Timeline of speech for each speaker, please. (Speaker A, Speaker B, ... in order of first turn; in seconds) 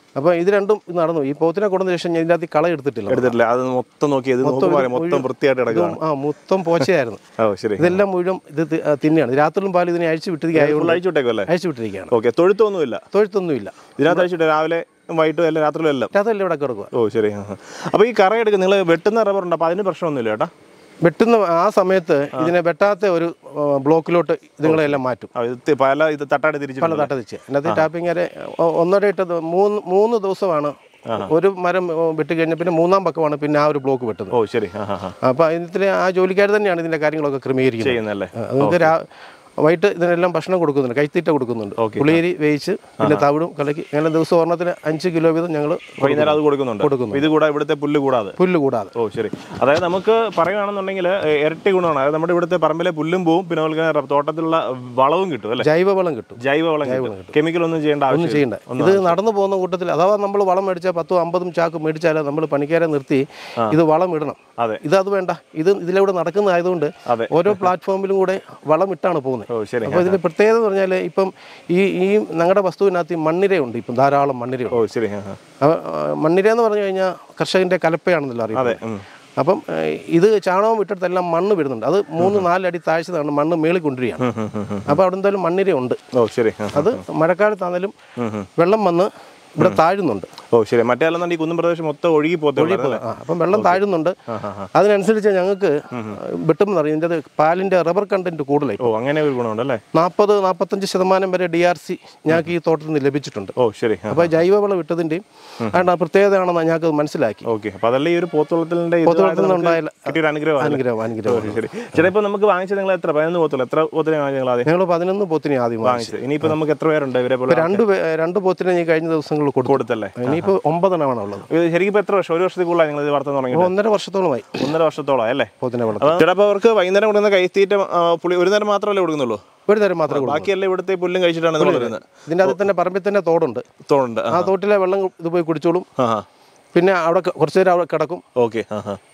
Speaker A: 0.2-3.4, 4.4-7.2, 7.8-12.1, 13.1-14.3, 16.1-16.9, 21.0-25.3, 26.8-34.3, 35.2-39.0, 39.6-47.3, 48.4-48.9, 55.6-57.4, 58.1-74.8, 75.6-78.8, 79.4-84.2, 84.9-86.0, 86.7-87.9, 88.6-90.3, 92.6-94.2, 94.7-98.9, 99.9-103.5, 104.1-107.5, 109.0-111.6, 114.7-116.5, 117.5-121.5, 123.5-124.7, 125.6-126.2, 129.7-130.5, 131.6-133.6, 134.3-135.9, 136.7-138.2
Speaker B: 3.1-6.0, 7.4-8.0, 10.6-11.5, 12.1-13.0, 14.0-16.1, 16.9-20.5, 24.7-27.1, 34.3-35.2, 37.8-38.9, 41.8-42.2, 43.0-43.3, 46.0-48.4, 49.0-55.7, 56.4-59.2, 64.6-64.8, 67.1-67.6, 69.5-70.2, 74.7-75.4, 78.5-79.0, 82.2-82.5, 84.2-85.0, 86.1-87.0, 88.2-88.5, 90.5-93.0, 93.5-94.7, 95.9-96.2, 98.8-99.8, 103.6-104.3, 107.5-114.7, 115.8-117.8, 119.7-120.5, 121.5-123.7, 124.6-129.4, 130.1-132.6, 133.9-134.5, 136.0-136.2, 138.4-139.0